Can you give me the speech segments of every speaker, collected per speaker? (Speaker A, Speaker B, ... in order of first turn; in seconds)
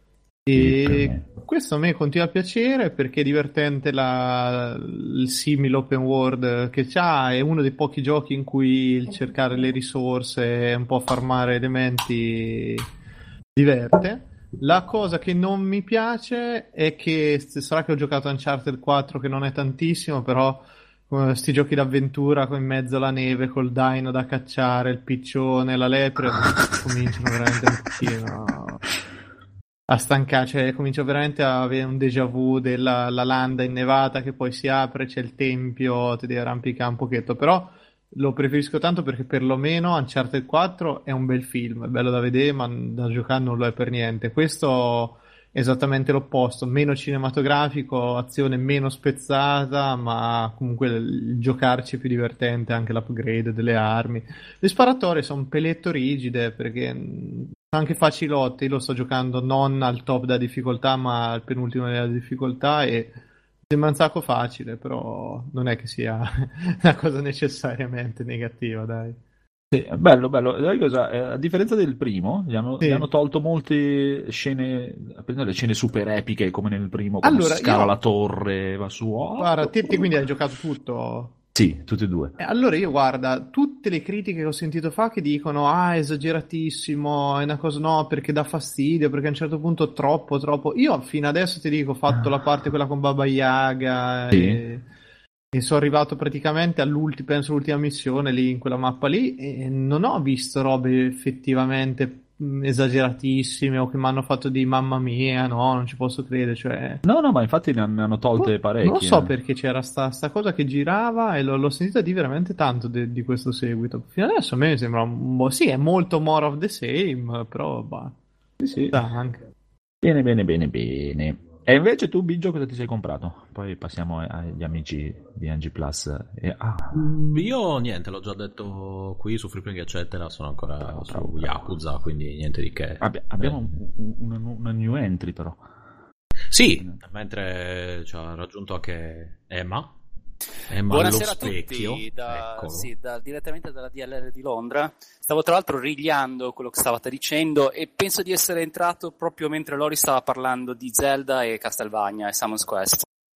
Speaker A: 0.5-12.9, 13.5-28.8, 29.9-69.2, 72.8-73.1, 77.2-77.9, 79.3-81.3, 82.4-94.8, 95.5-107.0, 108.4-118.2, 118.9-119.5
Speaker B: 0.5-1.2, 69.7-80.1, 81.5-82.3, 94.3-94.6, 107.0-109.3, 118.6-119.0, 120.0-127.0, 130.9-131.7, 133.0-135.6
Speaker C: 126.9-133.6, 136.5-140.0, 140.7-142.9
Speaker D: 140.9-153.1